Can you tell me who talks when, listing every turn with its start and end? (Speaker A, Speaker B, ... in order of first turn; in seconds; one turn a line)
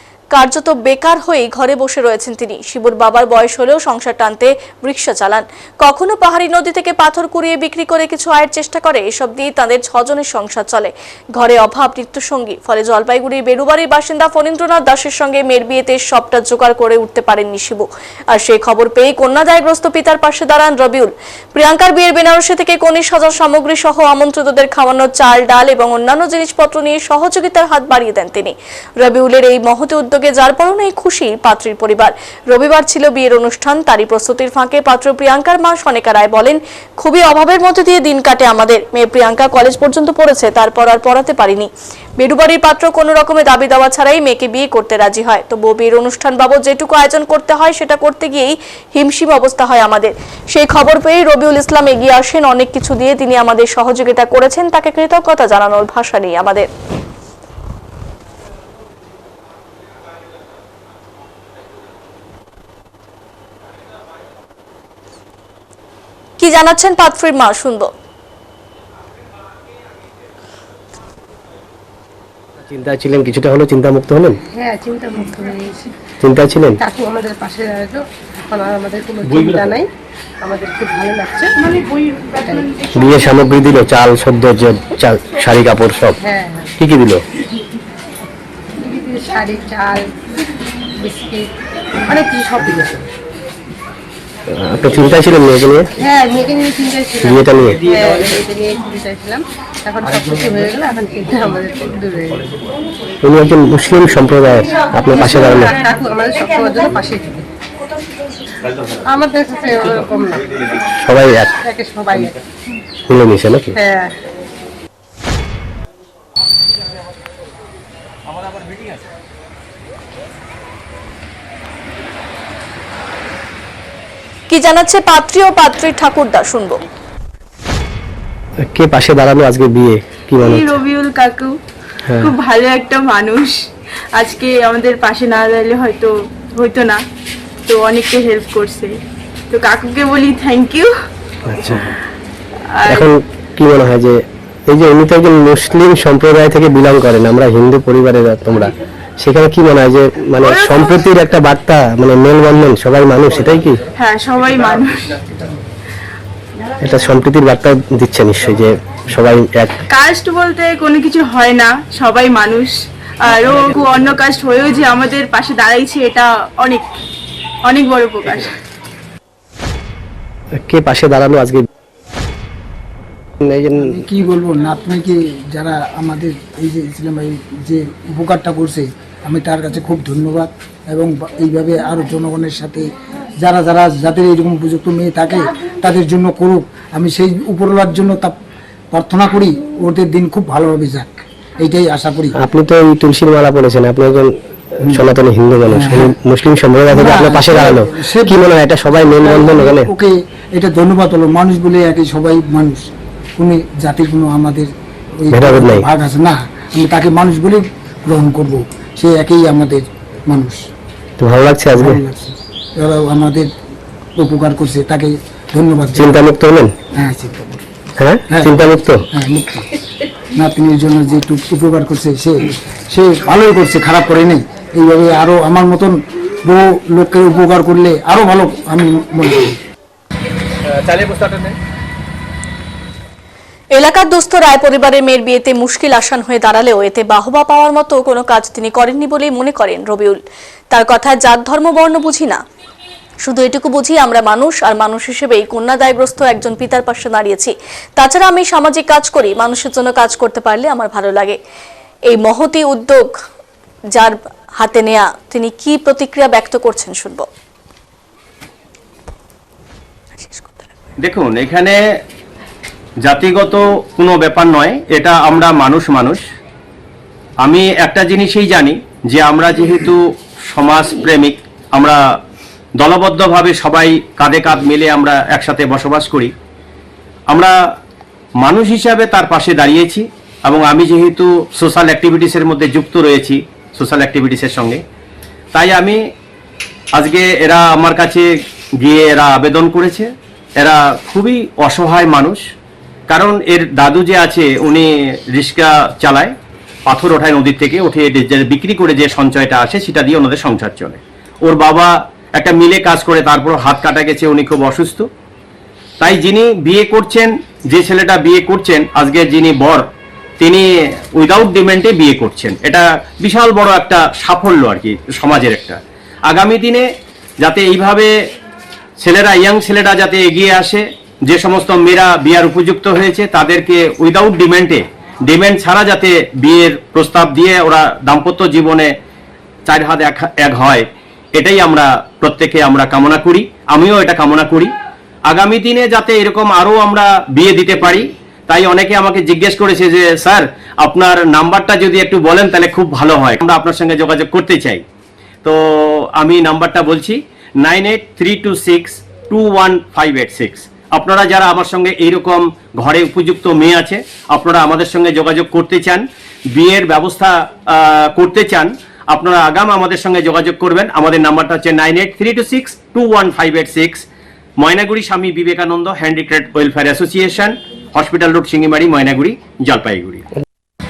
Speaker A: 0.3-56.7
Speaker A: 66.4-67.9
Speaker B: 72.7-74.4
Speaker C: 74.5-76.0
Speaker B: 76.2-76.8
Speaker C: 76.8-79.9
Speaker C: 80.4-81.7
Speaker C: 82.2-82.9
Speaker B: 83.0-86.2
Speaker C: 86.2-86.8
Speaker B: 86.8-87.2
Speaker C: 88.8-90.1
Speaker C: 91.0-93.1
Speaker B: 94.5-95.9
Speaker C: 96.0-102.5
Speaker B: 97.2-97.8
Speaker D: 100.2-100.4
Speaker B: 103.2-105.8
Speaker C: 105.1-107.5
Speaker C: 109.0-110.8
Speaker B: 111.0-111.5
Speaker C: 111.6-112.4
Speaker B: 113.1-113.8
Speaker C: 113.8-114.2
Speaker A: 124.5-126.8
Speaker B: 128.7-130.8
Speaker E: 130.4-131.6
Speaker B: 132.1-132.3
Speaker E: 132.2-133.6
Speaker E: 134.1-137.0
Speaker E: 137.7-140.9
Speaker B: 141.5-141.9
Speaker E: 142.7-143.1
Speaker B: 142.9-144.2
Speaker B: 144.7-153.8
Speaker E: 150.4-151.1
Speaker E: 153.9-155.3
Speaker B: 156.8-159.8
Speaker E: 159.9-167.0
Speaker E: 167.7-168.6
Speaker B: 170.6-171.7
Speaker B: 173.4-173.9
Speaker D: 173.8-182.9
Speaker D: 183.4-188.4
Speaker D: 188.9-192.3
Speaker B: 192.4-194.3
Speaker D: 194.8-195.2
Speaker B: 194.9-199.9
Speaker D: 195.7-196.1
Speaker D: 196.9-202.9
Speaker D: 203.4-210.6
Speaker B: 205.3-205.9
Speaker B: 211.2-212.0
Speaker D: 211.7-213.5
Speaker D: 214.2-216.3
Speaker B: 215.9-216.8
Speaker D: 217.0-217.6
Speaker B: 218.0-219.1
Speaker D: 218.3-219.7
Speaker D: 220.3-229.6
Speaker F: 230.7-231.6
Speaker A: 233.8-240.2
Speaker A: 240.7-242.4
Speaker A: 243.2-251.4
Speaker A: 252.1-253.1
Speaker A: 254.0-257.3
Speaker A: 260.2-260.6
Speaker F: 261.0-261.8
Speaker F: 263.1-266.2
Speaker F: 267.4-270.0
Speaker F: 270.5-272.0
Speaker F: 272.8-276.3
Speaker F: 278.4-284.8
Speaker F: 285.5-286.0
Speaker F: 287.0-288.3
Speaker F: 288.8-292.4
Speaker F: 293.1-296.4
Speaker F: 296.9-305.1
Speaker F: 306.0-309.9
Speaker F: 310.4-316.9
Speaker F: 317.4-318.1
Speaker F: 319.0-328.9
Speaker F: 329.7-334.7
Speaker F: 335.3-344.8
Speaker F: 345.4-364.1
Speaker F: 364.6-370.3